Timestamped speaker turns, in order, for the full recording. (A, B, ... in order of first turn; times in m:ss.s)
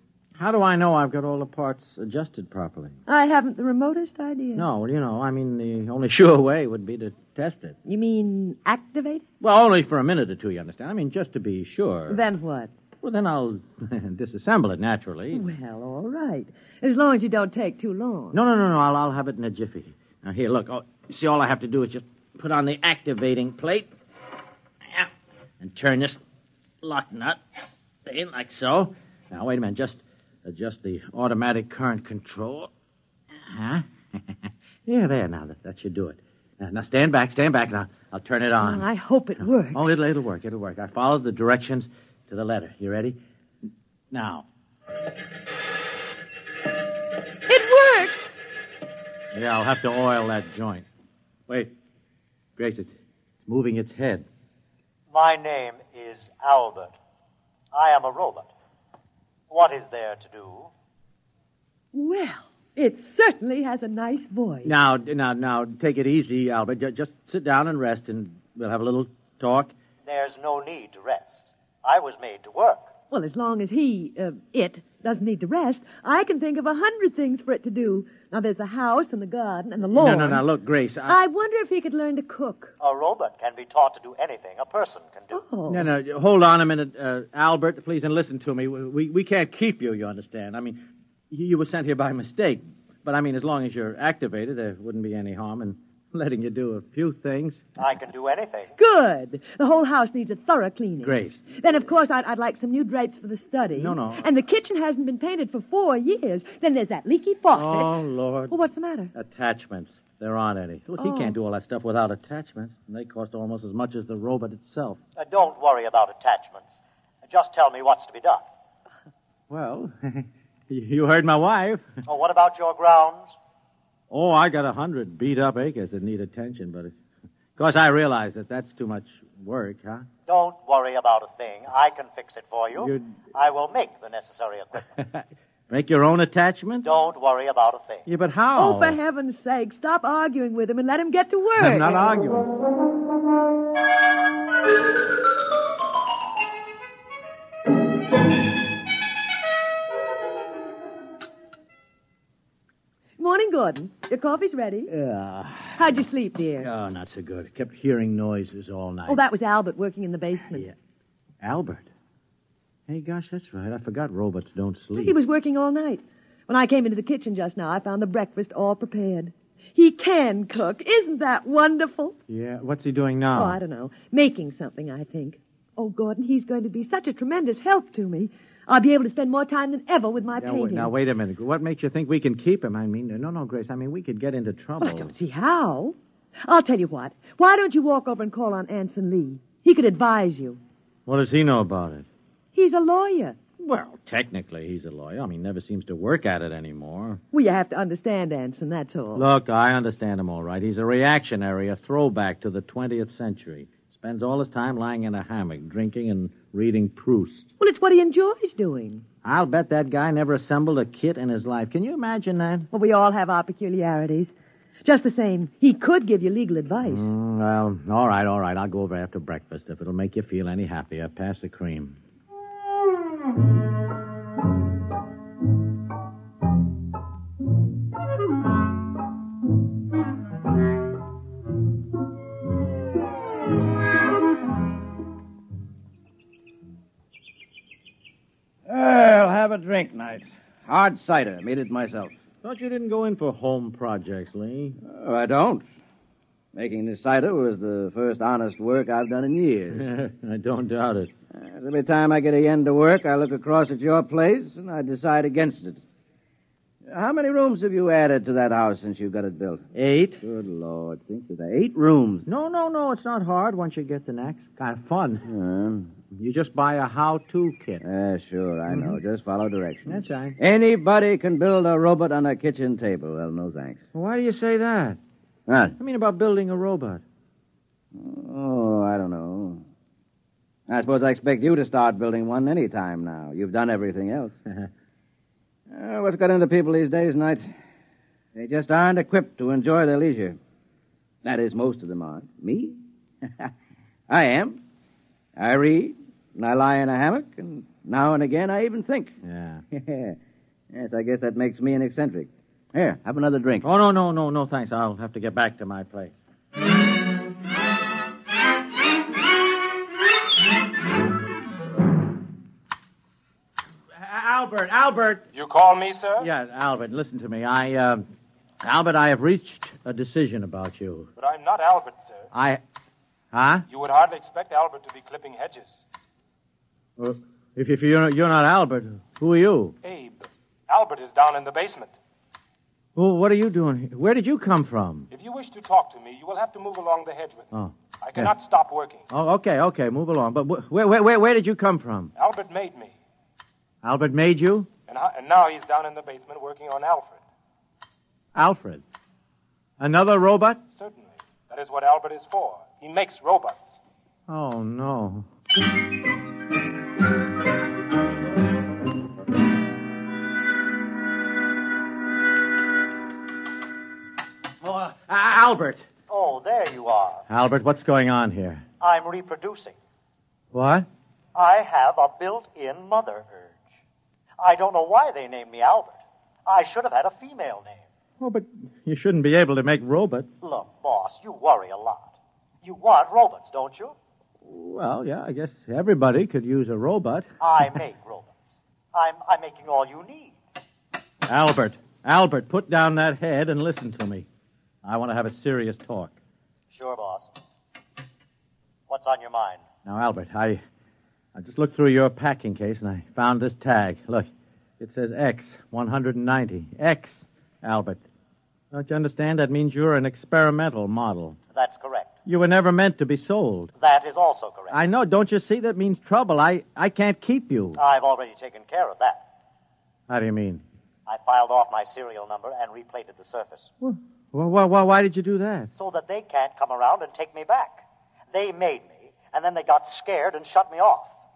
0:00.4-0:03.0 A
0:03.1-0:04.7 B
0:04.6-0:07.8 A
0:07.9-0:09.2 B
0:09.4-0:12.2 A
0:12.1-0:12.7 B
0:13.0-0:15.4 A
0:15.3-0:18.4 B
0:18.3-0:23.9 A
0:25.6-0:26.2 A
0:26.8-0:27.4 A
0:28.1-0:32.7 A
0:33.4-0:33.8 A
0:34.9-0:38.9 A
0:38.6-0:40.0 B
0:39.7-0:43.2 A
0:44.1-0:44.5 A
0:47.5-0:48.4 B
0:49.3-0:50.9 A
0:52.6-0:52.9 A
0:53.5-0:54.3 A
0:55.1-0:57.0 C
0:57.7-0:58.5 C
0:59.5-1:00.7 C
1:01.9-1:04.8 B
1:04.6-1:09.7 A
1:10.0-1:12.9 C
1:13.1-1:20.4 B
1:19.9-1:21.2 A
1:21.1-1:22.7 B
1:22.8-1:25.4 C
1:25.3-1:25.9 B
1:25.7-1:30.8 A
1:31.3-1:37.7 A
1:37.8-1:38.7 C
1:38.8-1:47.9 B
1:41.0-1:41.4 A
1:43.8-1:44.2 A
1:47.5-1:48.5 A
1:48.5-1:49.1 B
1:49.1-1:55.0 A
1:51.0-1:51.3 B
1:55.2-1:58.4 C
1:59.5-2:01.9 A
2:02.1-2:03.4 C
2:04.1-2:06.9 A
2:07.6-2:10.1 A
2:10.3-2:14.9 C
2:12.8-2:13.2 A
2:15.0-2:16.9 A
2:16.8-2:18.1 C
2:18.1-2:19.0 A
2:18.6-2:22.1 B
2:21.6-2:22.4 A
2:33.2-2:34.9 B
2:34.9-2:35.8 A
2:35.8-2:36.7 B
2:36.6-2:39.2 A
2:39.1-2:40.7 B
2:41.4-2:41.9 A
2:42.9-2:45.2 A
2:45.0-2:52.2 B
2:52.3-2:53.6 A
2:53.4-3:00.9 B
3:00.4-3:05.1 A
3:04.8-3:10.6 B
3:11.1-3:12.1 A
3:12.6-3:13.4 B
3:13.6-3:17.2 A
3:17.3-3:19.3 B
3:19.2-3:27.5 A
3:27.6-3:29.0 B
3:29.2-3:32.7 A
3:32.7-3:34.3 B
3:34.8-3:37.1 B
3:36.8-3:42.0 A
3:58.7-4:02.2 D
4:02.4-4:04.8 A
4:04.8-4:05.6 D
4:06.6-4:09.9 D
4:09.7-4:11.1 A
4:11.3-4:15.8 D
4:16.9-4:19.6 D
4:19.8-4:20.2 A
4:20.2-4:22.3 D
4:22.3-4:25.3 A
4:25.2-4:25.9 D
4:26.1-4:27.8 A
4:27.8-4:33.8 D
4:28.7-4:29.0 A
4:29.9-4:30.4 A
4:33.9-4:35.0 A
4:35.5-4:35.8 D
4:35.8-4:37.0 A
4:38.0-4:39.6 D
4:40.7-4:44.3 D
4:45.7-4:47.5 D
4:48.4-4:50.4 D
4:51.2-4:52.8 D
4:54.1-4:54.6 D
4:55.4-4:59.2 D
4:59.2-4:59.6 A
4:59.7-5:00.2 D
5:00.7-5:03.7 D
5:03.6-5:06.1 A
5:14.0-5:15.3 A
5:15.4-5:16.3 E
5:16.2-5:18.0 A
5:18.6-5:21.1 A
5:21.2-5:22.2 E
5:22.3-5:22.6 A
5:23.3-5:23.6 A
5:23.7-5:25.7 E
5:27.0-5:29.8 A
5:29.8-5:32.0 E
5:33.0-5:35.1 A
5:35.1-5:37.5 E
5:37.5-5:38.3 A
5:38.0-5:39.0 E
5:39.1-5:42.1 A
5:42.2-5:42.9 E
5:43.8-5:44.7 A
5:44.9-5:47.2 E
5:48.4-5:48.8 A
5:49.8-5:50.6 A
5:50.8-5:53.8 E
5:54.3-5:55.3 A
6:04.6-6:05.9 A
6:06.1-6:07.2 C
6:07.3-6:08.6 A
6:08.8-6:09.8 C
6:10.5-6:10.9 A
6:11.4-6:13.6 C
6:14.4-6:17.8 C
6:18.2-6:20.3 A
6:20.4-6:24.0 C
6:24.4-6:27.3 A
6:27.4-6:30.4 C
6:31.3-6:34.3 A
6:34.8-6:36.2 A
6:36.7-6:37.3 C
6:38.9-6:39.6 C
6:39.9-6:40.6 A
6:41.4-6:44.3 A
6:44.8-6:48.0 A
6:48.7-6:51.4 A
6:51.5-6:52.1 C
6:52.3-6:53.7 A
6:53.8-6:54.8 C
6:54.7-6:57.8 A
6:57.8-6:59.2 C
7:00.1-7:00.6 A
7:01.1-7:03.7 C
7:03.8-7:05.7 A
7:05.8-7:11.1 C